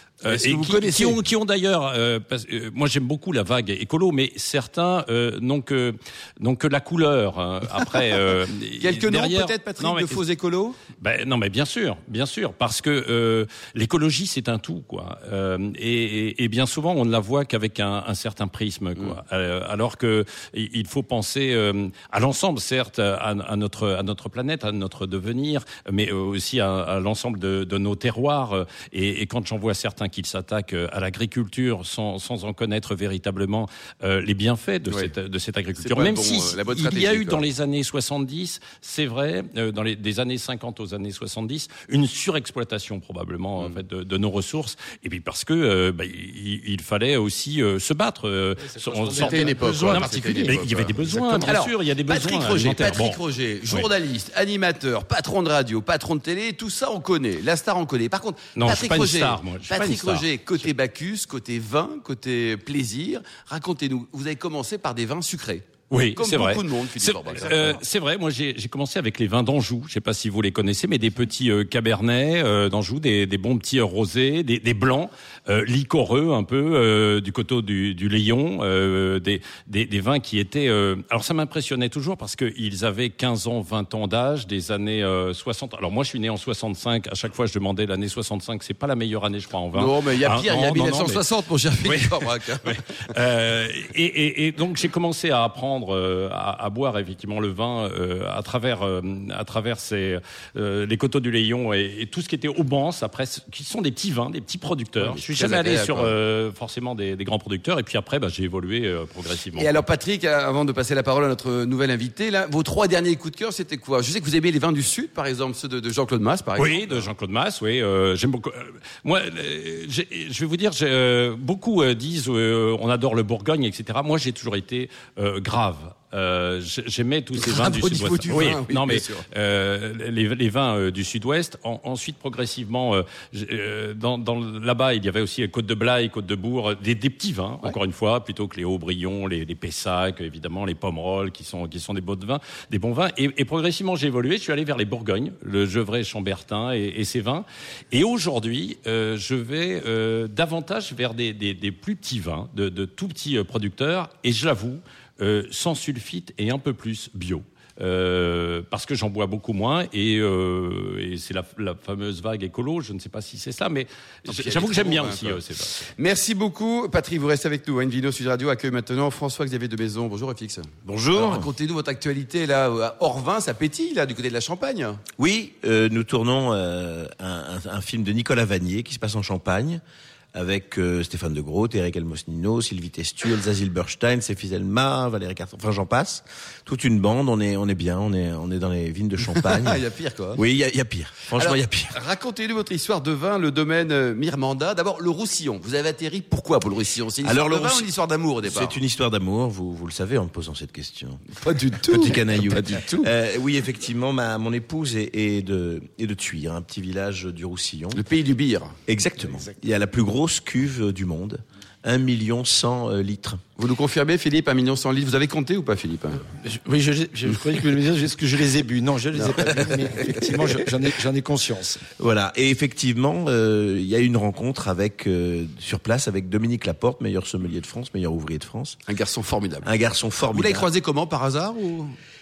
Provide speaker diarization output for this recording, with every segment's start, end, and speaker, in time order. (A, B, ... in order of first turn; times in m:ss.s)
0:00.2-0:10.2 A
0:00.3-0:01.2 B
0:08.8-0:10.8 B
0:11.0-0:53.9 A
0:35.8-0:37.4 B
0:48.6-0:51.6 C
0:49.2-1:07.8 B
0:58.6-1:00.7 A
1:05.9-1:31.2 A
1:07.3-1:07.7 C
1:29.7-1:32.8 B
1:31.8-1:49.8 A
1:45.0-1:46.1 B
1:49.6-1:57.1 B
1:56.6-2:45.9 A
2:07.4-2:09.3 B
2:44.3-2:55.0 B
2:50.8-2:51.5 D
2:55.2-2:59.8 D
3:00.3-3:09.8 D
3:09.3-3:10.4 B
3:10.4-3:12.0 D
3:11.4-3:18.8 B
3:17.2-3:17.9 D
3:18.4-3:21.2 D
3:21.4-3:23.1 B
3:21.8-3:28.0 D
3:27.9-3:28.8 B
3:28.9-3:33.4 D
3:29.2-3:29.5 C
3:33.6-3:36.2 B
3:36.3-3:41.8 C
3:39.2-3:40.2 B
3:42.0-3:48.8 D
3:48.9-3:49.7 B
3:49.6-3:50.7 D
3:50.3-3:52.0 B